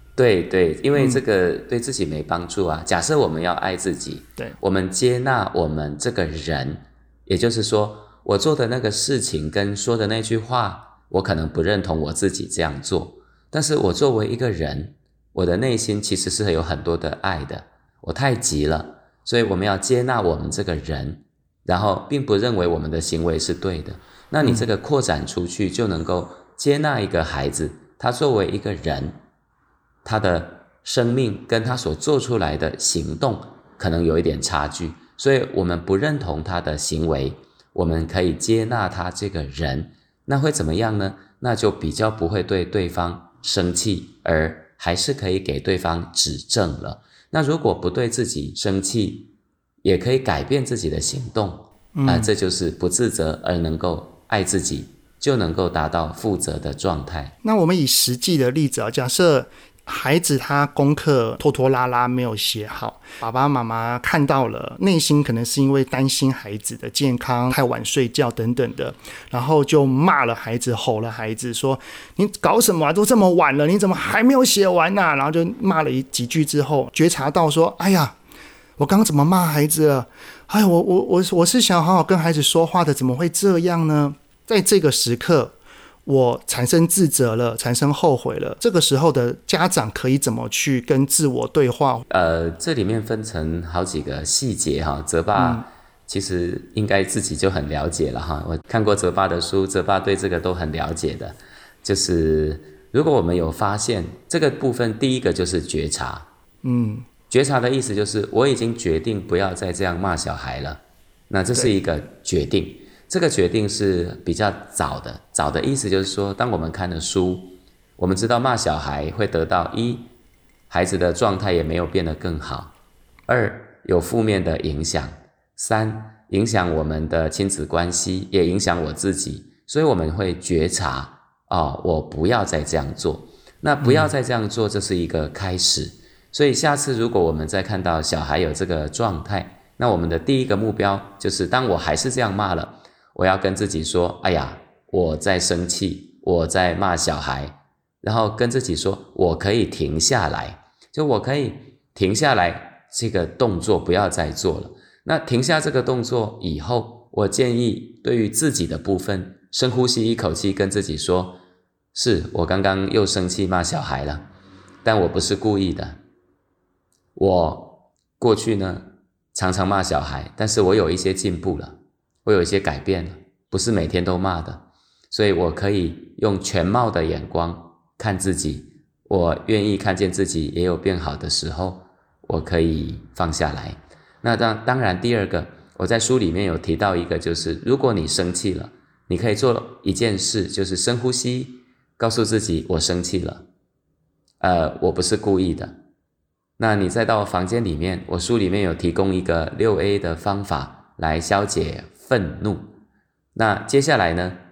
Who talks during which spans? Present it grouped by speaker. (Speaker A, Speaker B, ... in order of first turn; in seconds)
Speaker A: 0.1-29.2, 30.0-49.3, 49.8-57.3, 92.1-106.3, 107.3-120.1, 120.7-122.7, 123.3-161.4, 161.9-164.3, 164.8-166.0, 167.1-193.5, 194.4-195.8, 196.6-202.7, 203.3-204.4
Speaker B: 0.9-1.2, 24.4-24.7, 51.9-52.3, 57.4-78.2, 78.8-85.5, 86.0-92.0, 95.3-95.6, 106.6-107.0, 133.8-134.1